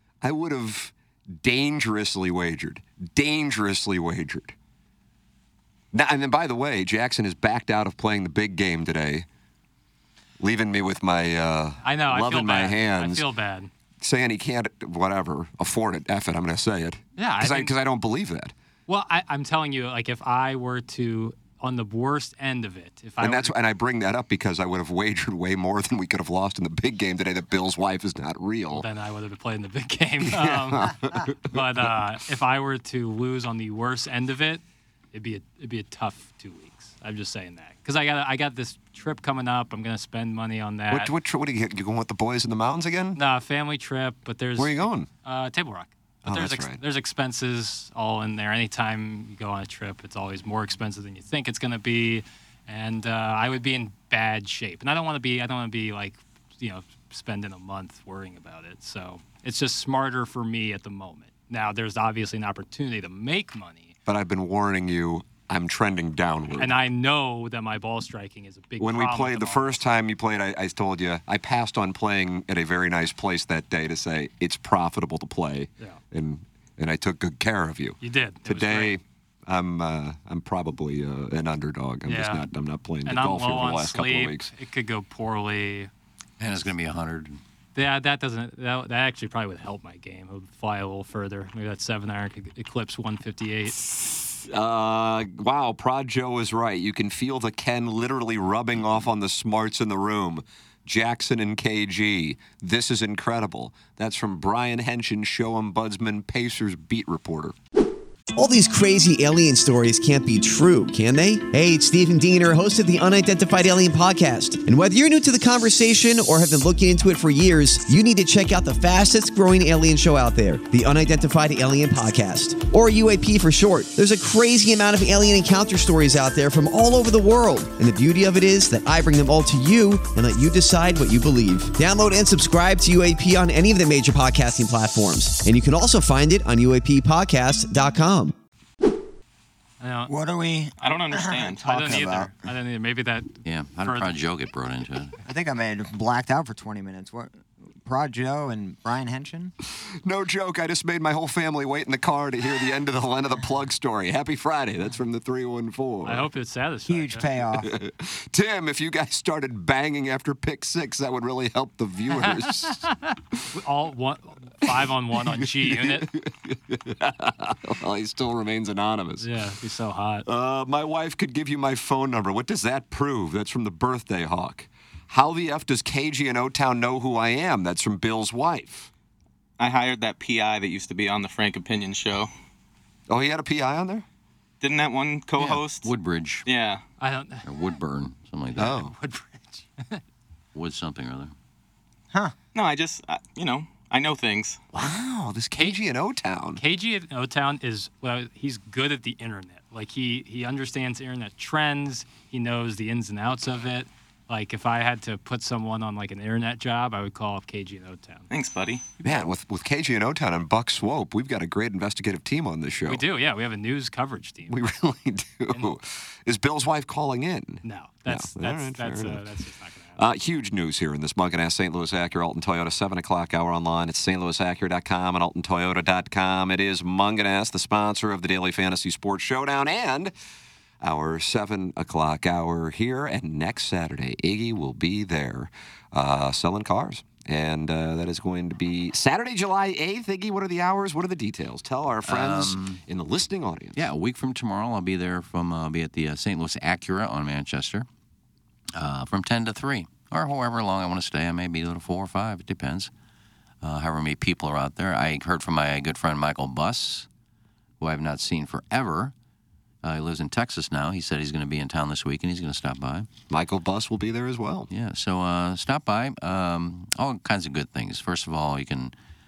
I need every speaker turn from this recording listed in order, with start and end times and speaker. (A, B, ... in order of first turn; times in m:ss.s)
0:00.2-0:04.5 A
0:05.9-0:09.2 A
0:10.4-0:13.2 A
0:11.8-0:13.7 B
0:14.0-0:18.5 A
0:17.2-0:17.7 B
0:18.9-0:23.6 B
0:23.2-0:28.8 A
0:28.7-0:34.6 B
0:30.2-0:31.9 A
0:35.1-0:41.1 B
0:40.9-0:43.2 A
0:43.1-1:04.0 B
0:44.6-0:45.1 A
0:46.2-0:46.8 A
1:04.1-1:06.8 A
1:06.6-1:09.7 B
1:08.8-1:24.5 A
1:18.0-1:19.0 B
1:22.0-1:22.4 B
1:23.0-1:25.9 B
1:26.4-1:27.4 C
1:27.7-1:33.8 B
1:34.4-1:47.5 A
1:48.4-2:18.3 D
2:19.8-2:20.1 B
2:20.1-2:22.3 E
2:20.8-2:21.6 F
2:21.6-2:24.1 B
2:23.4-2:25.2 C
2:25.2-2:29.5 E
2:30.0-2:36.3 A
2:36.0-2:37.3 B
2:36.9-2:37.8 E
2:37.6-2:42.9 A
2:42.1-2:46.1 B
2:44.6-2:49.3 A
2:49.2-2:50.2 B
2:50.2-2:58.9 A
2:59.6-3:02.3 F
3:03.1-3:04.0 A
3:04.6-3:05.9 F
3:05.4-3:06.4 C
3:06.4-3:06.8 F
3:07.0-3:07.4 B
3:07.4-3:08.8 C
3:08.6-3:08.9 A
3:08.6-3:10.0 B
3:10.5-3:11.3 C
3:12.5-3:14.6 F
3:14.7-3:16.6 A
3:16.6-3:28.3 B
3:28.3-3:28.8 F
3:29.0-3:33.0 A
3:32.8-3:34.7 B
3:34.5-3:39.2 A
3:37.6-3:40.0 B
3:40.0-3:50.1 A
3:50.8-4:03.8 A
4:02.0-4:02.8 C
4:03.8-4:07.9 C
4:08.7-4:12.9 C
4:13.6-4:17.1 C
4:17.8-4:19.1 C
4:19.8-4:23.1 C
4:23.3-4:24.7 A
4:24.7-4:28.9 C